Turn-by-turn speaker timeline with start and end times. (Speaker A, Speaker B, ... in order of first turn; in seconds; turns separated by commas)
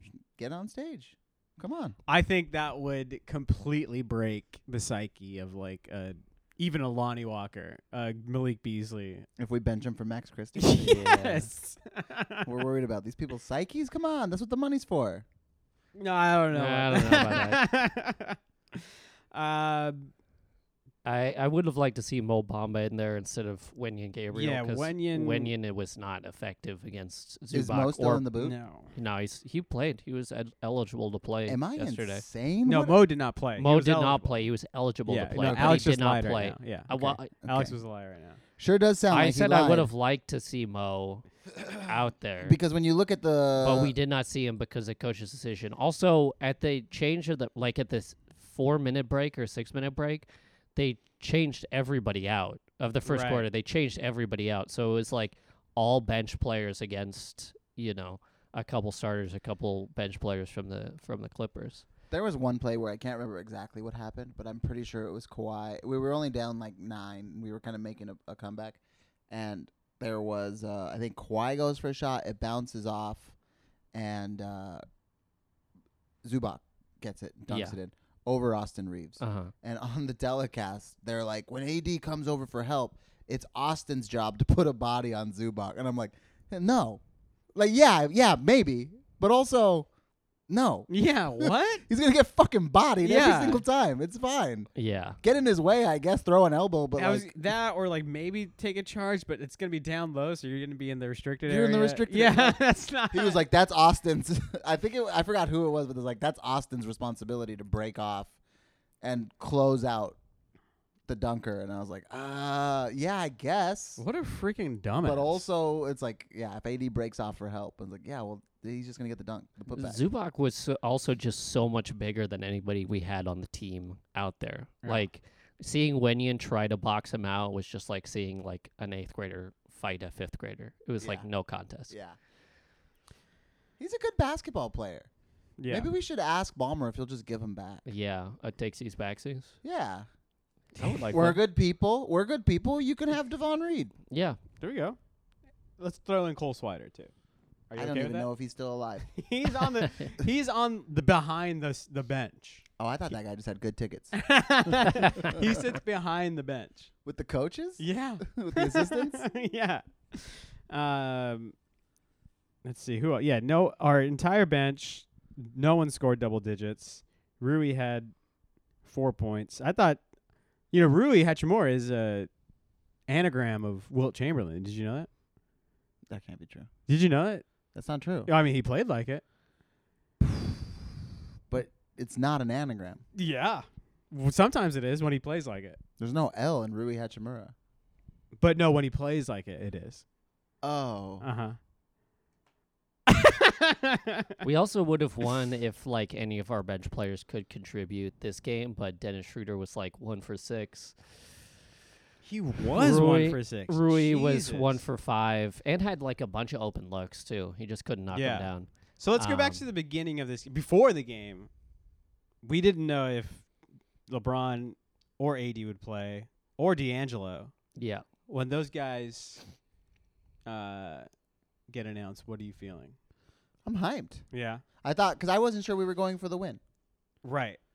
Speaker A: 0.3-1.9, Speaker B: 2.1-9.2, Speaker A: 9.4-11.1, Speaker B: 10.5-12.5, Speaker C: 10.8-11.5, Speaker A: 12.4-15.2, Speaker B: 15.9-20.1, Speaker C: 16.5-17.6, Speaker C: 21.0-28.2, Speaker B: 24.3-25.5, Speaker A: 27.5-28.6, Speaker B: 28.4-28.9, Speaker C: 28.9-32.2, Speaker A: 31.5-33.0, Speaker B: 32.6-34.3, Speaker C: 33.6-37.3, Speaker B: 35.0-38.4, Speaker A: 35.4-35.9, Speaker A: 37.0-37.7, Speaker A: 38.6-39.9, Speaker C: 39.1-41.2, Speaker C: 41.8-42.6, Speaker A: 42.4-43.9, Speaker C: 43.6-61.9, Speaker B: 53.0-53.5, Speaker A: 62.1-73.3, Speaker A: 73.9-74.8, Speaker A: 76.2-87.0, Speaker C: 77.5-77.8, Speaker C: 79.2-79.5, Speaker A: 87.5-89.9, Speaker A: 90.5-94.7, Speaker B: 90.9-91.8, Speaker B: 93.0-93.6, Speaker C: 94.7-95.2, Speaker A: 95.2-97.3, Speaker B: 97.0-103.4, Speaker A: 101.5-102.6, Speaker A: 103.1-108.3, Speaker A: 109.0-110.2, Speaker A: 111.1-114.0, Speaker B: 114.0-115.4, Speaker A: 115.0-120.0, Speaker C: 119.7-131.9, Speaker B: 124.8-125.1, Speaker A: 131.0-131.2, Speaker A: 131.9-132.2, Speaker A: 133.8-135.1, Speaker B: 135.6-135.9, Speaker A: 135.7-137.8, Speaker C: 137.8-139.5, Speaker A: 139.6-140.1, Speaker C: 140.8-141.4, Speaker A: 141.1-143.9, Speaker C: 144.1-144.4, Speaker B: 144.6-145.0, Speaker B: 145.8-147.1, Speaker B: 147.7-148.3, Speaker A: 147.8-149.1, Speaker B: 149.1-152.6, Speaker A: 152.8-154.2, Speaker B: 154.1-156.9, Speaker A: 154.8-155.6, Speaker A: 157.0-159.2, Speaker B: 157.8-161.5, Speaker B: 162.6-168.1, Speaker B: 168.8-170.0, Speaker B: 170.7-172.3, Speaker B: 173.1-175.1, Speaker A: 176.1-176.7, Speaker B: 176.9-177.4, Speaker A: 177.7-178.3, Speaker B: 178.2-179.2, Speaker A: 181.5-183.0, Speaker B: 183.1-185.8, Speaker A: 186.0-187.5, Speaker B: 188.4-190.0, Speaker A: 190.6-191.3, Speaker B: 191.2-191.6, Speaker B: 193.1-194.3, Speaker C: 194.4-201.0, Speaker B: 202.2-204.8, Speaker C: 202.7-209.6, Speaker B: 208.1-211.5, Speaker B: 212.4-213.5, Speaker B: 214.1-217.5, Speaker C: 217.8-218.0, Speaker B: 218.3-219.4, Speaker B: 220.4-221.1, Speaker B: 221.7-222.9, Speaker A: 223.6-224.2, Speaker B: 224.3-224.6, Speaker A: 224.8-226.6, Speaker B: 227.2-227.6